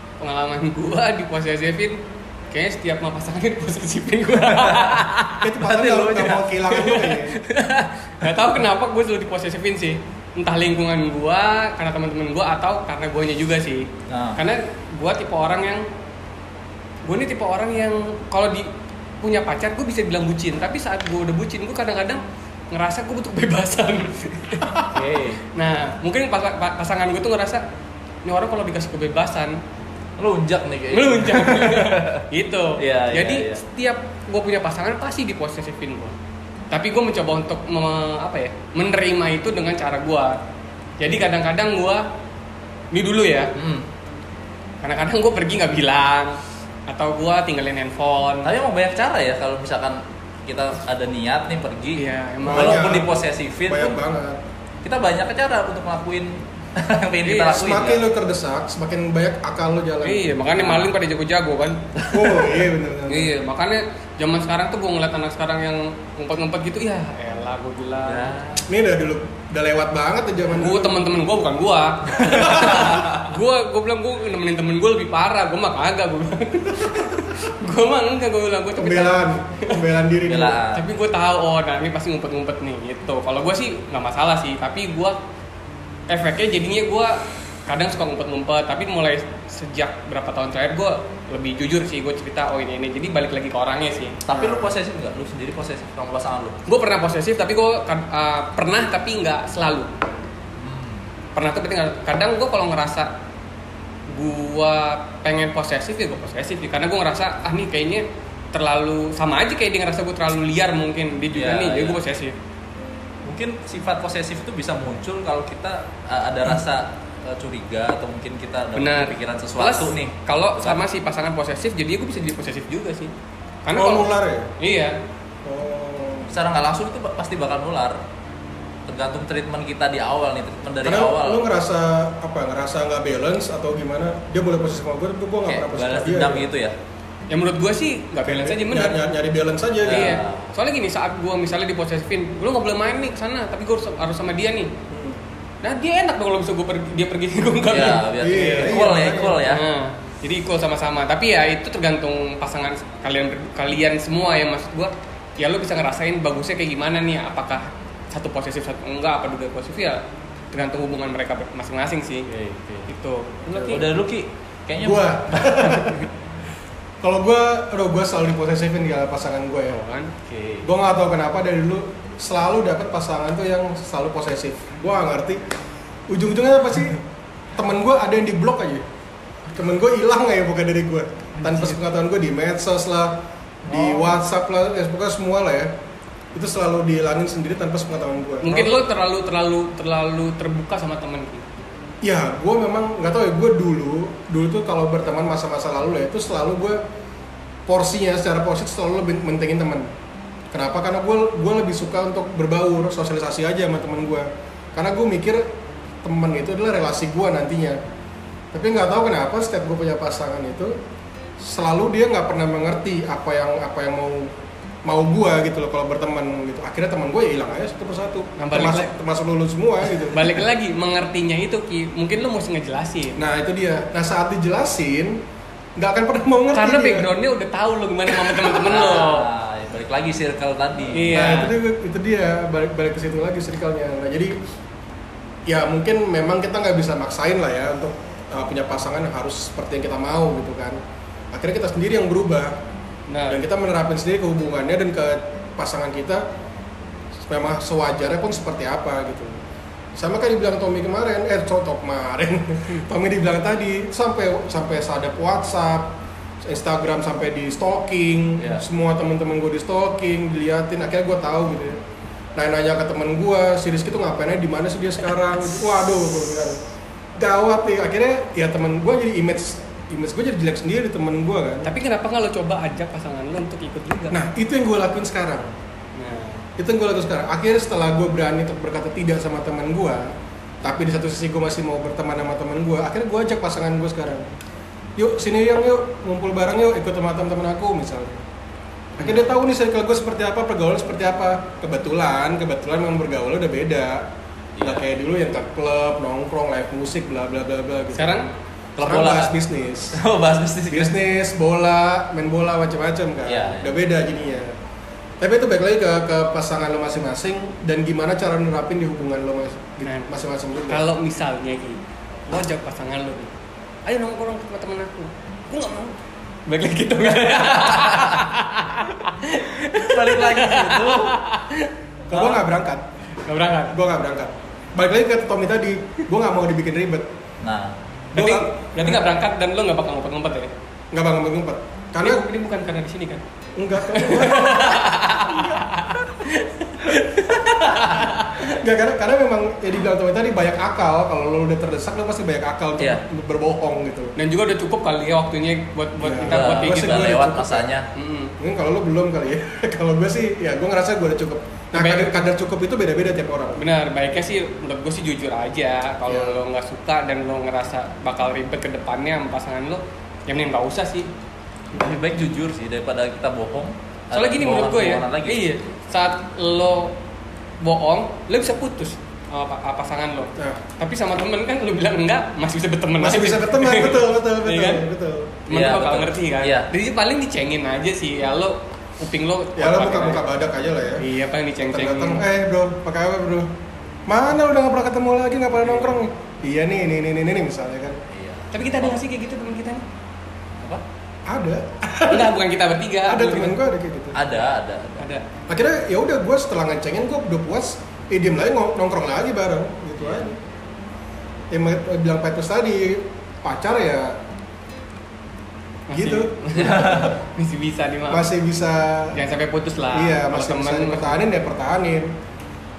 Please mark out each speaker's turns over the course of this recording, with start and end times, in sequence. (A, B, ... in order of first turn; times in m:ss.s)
0:00.2-0:05.4 A
0:04.4-0:05.1 B
0:05.4-0:07.4 C
0:05.6-0:06.6 B
0:06.7-0:15.9 A
0:14.1-0:14.4 B
0:17.1-0:27.6 A
0:24.8-0:25.4 B
0:28.2-0:29.6 A
0:30.2-0:32.3 B
0:30.9-0:36.2 A
0:32.8-0:33.6 B
0:36.7-0:40.4 A
0:41.0-0:42.1 A
0:42.9-0:43.5 A
0:43.6-0:43.9 B
0:44.8-0:48.5 A
0:48.4-0:54.0 B
0:52.0-0:53.0 A
0:52.4-0:54.4 C
0:54.8-0:58.0 B
0:57.2-0:57.6 A
0:57.4-1:00.3 C
1:00.0-1:01.9 A
1:00.6-1:00.9 B
1:02.1-1:03.3 C
1:03.1-1:08.4 A
1:08.0-1:08.7 B
1:08.7-1:11.0 C
1:10.6-1:19.8 A
1:12.2-1:13.3 B
1:12.3-1:12.8 C
1:18.8-1:20.6 C
1:20.2-1:20.8 B
1:20.7-1:25.2 A
1:26.1-1:34.2 A
1:34.3-1:36.6 B
1:34.3-1:34.6 C
1:36.7-1:39.9 A
1:40.6-1:41.0 B
1:41.4-1:43.1 A
1:44.1-1:52.4 A
1:51.3-1:52.0 B
1:53.2-2:00.8 B
1:58.8-2:03.1 A
2:03.6-2:05.0 A
2:03.7-2:04.5 C
2:05.4-2:06.3 C
2:06.3-2:08.0 B
2:08.9-2:11.4 B
2:10.8-2:16.5 C
2:15.5-2:16.8 B
2:17.3-2:19.0 A
2:18.2-2:20.2 C
2:19.8-2:20.5 B
2:19.9-2:24.7 A
2:24.9-2:25.2 C
2:25.6-2:42.3 A
2:27.7-2:29.6 B
2:28.2-2:29.4 C
2:42.3-2:42.9 B
2:42.9-2:43.9 A
2:43.7-2:46.0 B
2:44.8-2:46.1 C
2:47.0-2:49.8 C
2:49.7-2:50.2 A
2:50.3-2:50.7 B
2:50.6-2:55.4 C
2:56.1-2:57.0 C
2:57.6-2:58.8 C
2:59.5-3:05.7 C
3:06.3-3:08.8 C
3:08.4-3:11.5 A
3:12.0-3:16.8 C
3:17.7-3:19.9 C
3:20.5-3:25.5 C
3:26.0-3:27.8 C
3:28.5-3:30.8 C
3:31.4-3:34.3 C
3:34.8-3:40.4 C
3:38.4-3:38.9 A
3:40.0-3:43.2 A
3:43.2-3:45.2 C
3:45.8-3:47.1 C
3:46.6-3:49.3 A
3:48.6-3:51.2 B
3:50.9-3:51.6 A
3:51.1-3:54.4 C
3:55.5-4:00.8 C
4:01.3-4:02.6 C
4:03.1-4:03.4 A
4:03.3-4:06.3 C
4:07.3-4:09.4 C
4:10.0-4:21.8 C
4:22.4-4:26.6 C
4:27.2-4:31.7 C
4:31.6-4:34.2 A
4:34.1-4:35.5 C
4:36.0-4:36.4 A
4:36.6-4:44.3 C
4:45.0-4:48.2 C
4:49.0-4:54.1 C
4:54.6-4:54.8 B
4:54.6-4:58.3 C
4:57.9-4:58.3 A
4:58.8-4:59.4 B
4:58.8-5:00.0 C
4:59.9-5:01.0 B
5:00.7-5:04.5 C
5:03.3-5:03.7 B
5:05.2-5:10.8 C
5:09.8-5:10.1 A
5:10.7-5:13.3 A
5:13.9-5:21.7 A
5:17.3-5:18.2 B
5:19.6-5:21.2 B
5:22.1-5:22.8 C
5:22.1-5:22.4 B
5:23.2-5:23.8 A
5:23.7-5:27.1 C
5:27.4-5:27.8 B
5:28.2-5:30.5 A
5:28.2-5:29.0 C
5:30.9-5:32.3 C
5:32.0-5:33.2 A
5:33.6-5:35.6 C
5:33.8-5:38.6 A
5:38.4-5:44.2 C
5:44.2-5:47.2 A
5:46.0-5:47.7 C
5:46.3-5:47.9 B
5:48.0-5:48.4 A
5:48.4-5:53.6 C
5:51.7-5:52.2 A
5:53.6-6:01.1 A
5:56.1-5:56.4 C
6:01.7-6:05.5 B
6:04.1-6:07.0 A
6:07.6-6:14.8 A
6:13.0-6:15.4 C
6:15.5-6:20.2 A
6:15.5-6:16.7 B
6:19.6-6:21.0 C
6:21.0-6:22.3 A
6:21.7-6:23.5 C
6:24.1-6:28.0 C
6:28.1-6:29.0 B
6:28.5-6:29.8 A
6:31.3-6:32.3 C
6:32.1-6:33.6 A
6:33.1-6:34.2 C
6:34.2-6:35.1 B
6:35.0-6:35.2 A
6:35.5-6:40.4 C
6:40.0-6:40.3 B
6:41.5-6:44.2 C
6:45.9-6:48.3 A
6:45.9-6:47.1 C
6:46.6-6:47.1 B
6:48.1-6:49.2 C
6:49.1-6:51.2 A
6:49.9-6:52.2 C